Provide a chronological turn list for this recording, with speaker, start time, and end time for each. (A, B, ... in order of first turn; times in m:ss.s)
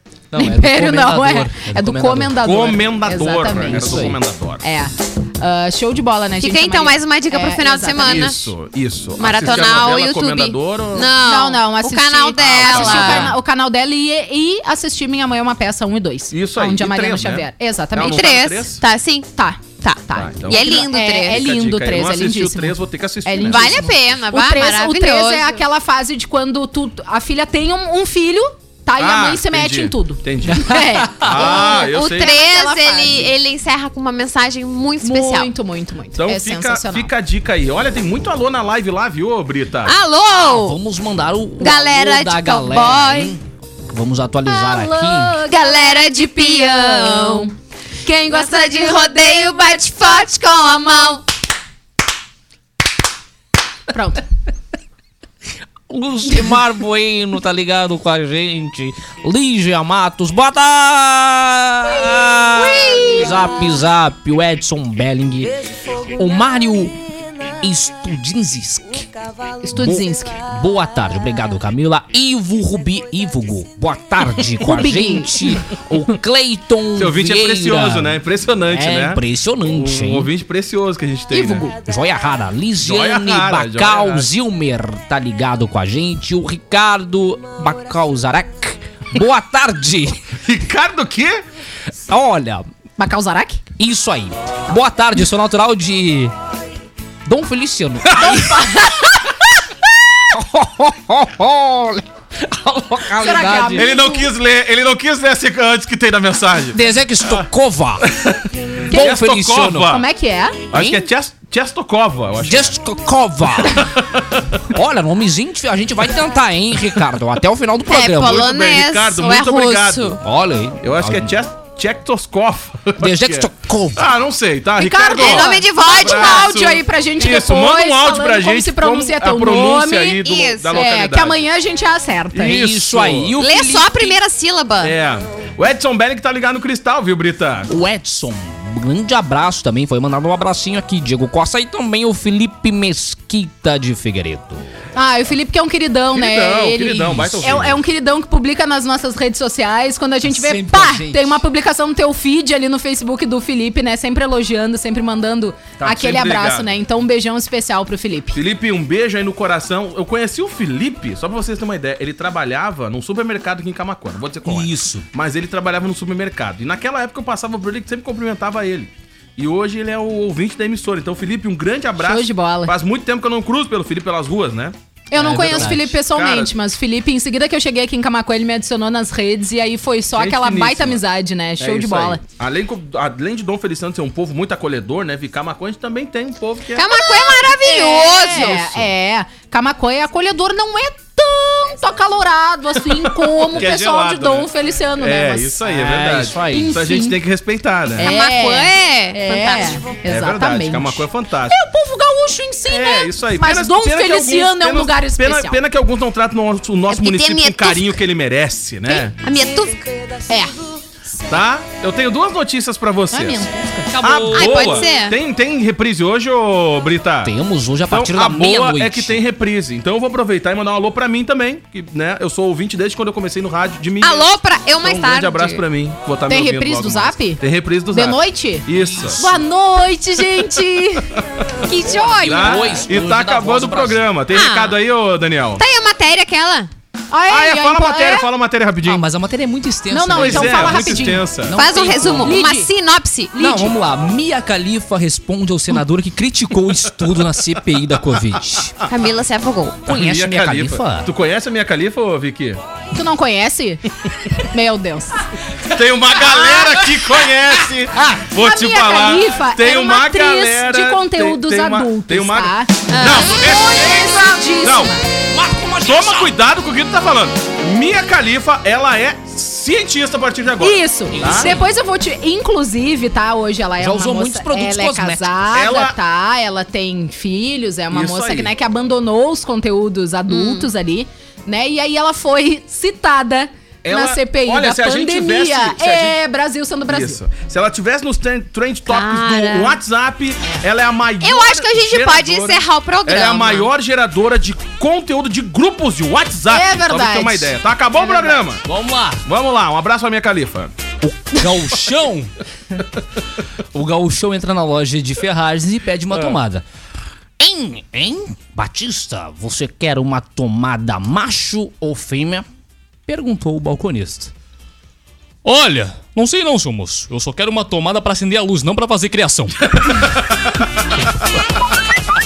0:00.3-0:02.4 A
0:00.3-0:04.1 B
0:02.4-0:04.6 C
0:03.7-0:04.2 A
0:04.6-0:08.5 B
0:06.4-0:08.4 D
0:08.0-0:11.1 C
0:09.2-0:13.3 D
0:11.2-0:18.3 B
0:12.4-0:13.3 C
0:12.9-0:13.4 A
0:16.3-0:18.8 C
0:18.0-0:19.3 D
0:19.4-0:33.3 B
0:19.8-0:21.5 D
0:20.1-0:23.9 C
0:23.4-0:25.6 D
0:29.0-0:32.3 C
0:31.3-0:35.5 D
0:35.0-0:37.1 B
0:36.2-0:39.9 C
0:39.8-0:40.8 D
0:40.3-0:45.4 A
0:41.6-0:43.3 D
0:44.4-0:47.5 B
0:45.5-0:47.5 D
0:48.0-0:49.4 B
0:48.2-0:51.2 D
0:53.9-0:54.2 B
0:55.9-1:05.6 A
1:02.6-1:03.3 B
1:06.2-1:07.0 A
1:07.6-1:09.1 A
1:09.6-1:10.4 B
1:09.7-1:20.3 A
1:14.6-1:15.3 B
1:17.0-1:19.2 C
1:19.7-1:21.7 C
1:21.3-1:21.7 B
1:21.8-1:30.2 A
1:22.8-1:24.3 C
1:30.4-1:31.4 C
1:32.1-1:32.7 A
1:33.0-1:33.6 B
1:33.8-1:36.3 A
1:37.2-1:39.1 A
1:38.1-1:38.6 C
1:40.3-1:43.9 A
1:43.2-1:44.3 B
1:43.7-1:47.4 C
1:46.7-1:48.1 A
1:48.1-1:50.0 C
1:48.9-1:50.0 A
1:49.9-1:50.6 B
1:50.7-1:52.8 C
1:50.7-1:51.1 A
1:52.4-1:53.9 A
1:53.7-1:54.2 C
1:54.7-1:58.4 A
1:57.9-2:00.2 D
1:58.2-2:00.2 C
2:00.2-2:01.4 A
2:00.8-2:11.4 C
2:03.0-2:04.1 A
2:04.8-2:12.6 B
2:05.2-2:06.6 D
2:10.2-2:10.8 D
2:12.3-2:13.3 C
2:12.3-2:14.2 A
2:13.4-2:15.0 D
2:14.8-2:17.7 C
2:17.7-2:24.7 A
2:25.0-2:38.4 B
2:26.1-2:27.8 C
2:27.1-2:27.7 A
2:30.2-2:31.4 A
2:35.8-2:36.7 C
2:38.3-2:56.5 C
2:44.4-2:45.1 A
2:52.0-2:52.7 B
2:55.1-3:02.2 B
2:55.1-2:55.9 A
3:00.2-3:01.0 C
3:01.6-3:07.0 C
3:06.7-3:08.6 D
3:07.3-3:15.6 B
3:08.3-3:08.9 C
3:12.9-3:18.1 C
3:15.6-3:16.8 A
3:16.5-3:17.2 B
3:18.0-3:25.6 B
3:18.0-3:19.9 D
3:20.0-3:21.6 C
3:22.7-3:29.1 C
3:26.9-3:28.0 D
3:28.8-3:30.2 D
3:30.3-3:30.5 B
3:31.3-3:33.4 C
3:33.1-3:33.9 B
3:33.8-3:34.8 A
3:34.0-3:37.3 C
3:34.3-3:35.2 D
3:37.2-3:39.2 A
3:37.9-3:44.3 C
3:44.0-3:45.6 D
3:44.8-3:49.2 C
3:46.3-3:51.1 B
3:48.8-3:49.4 A
3:51.7-3:52.6 B
3:51.8-3:54.1 A
3:52.3-3:55.6 C
3:54.3-3:54.8 D
3:55.6-3:56.7 D
3:57.1-3:58.3 B
3:57.3-3:59.0 C
3:58.8-4:02.4 A
3:59.9-4:01.2 B
4:00.1-4:01.6 C
4:01.5-4:03.5 D
4:02.2-4:02.7 B
4:03.3-4:03.7 B
4:03.4-4:08.7 A
4:08.8-4:10.0 D
4:09.8-4:11.1 A
4:09.9-4:12.6 C
4:12.9-4:13.8 B
4:14.4-4:15.2 B
4:15.7-4:24.9 C
4:16.2-4:18.2 A
4:18.4-4:25.0 B
4:22.9-4:23.4 D
4:25.3-4:26.3 A
4:25.8-4:31.5 C
4:30.6-4:47.2 B
4:31.1-4:31.6 A
4:33.8-4:35.3 A
4:35.5-4:36.0 C
4:37.9-4:38.5 C
4:40.3-4:40.7 D
4:43.8-4:46.2 C
4:46.9-4:58.6 C
4:48.9-4:49.8 D
4:51.2-4:53.7 D
4:56.5-4:58.3 B
4:58.5-4:59.2 A
4:59.2-5:00.7 C
5:01.0-5:02.8 A
5:03.7-5:06.6 A
5:07.4-5:12.4 A
5:13.1-5:14.3 A
5:15.4-5:20.2 A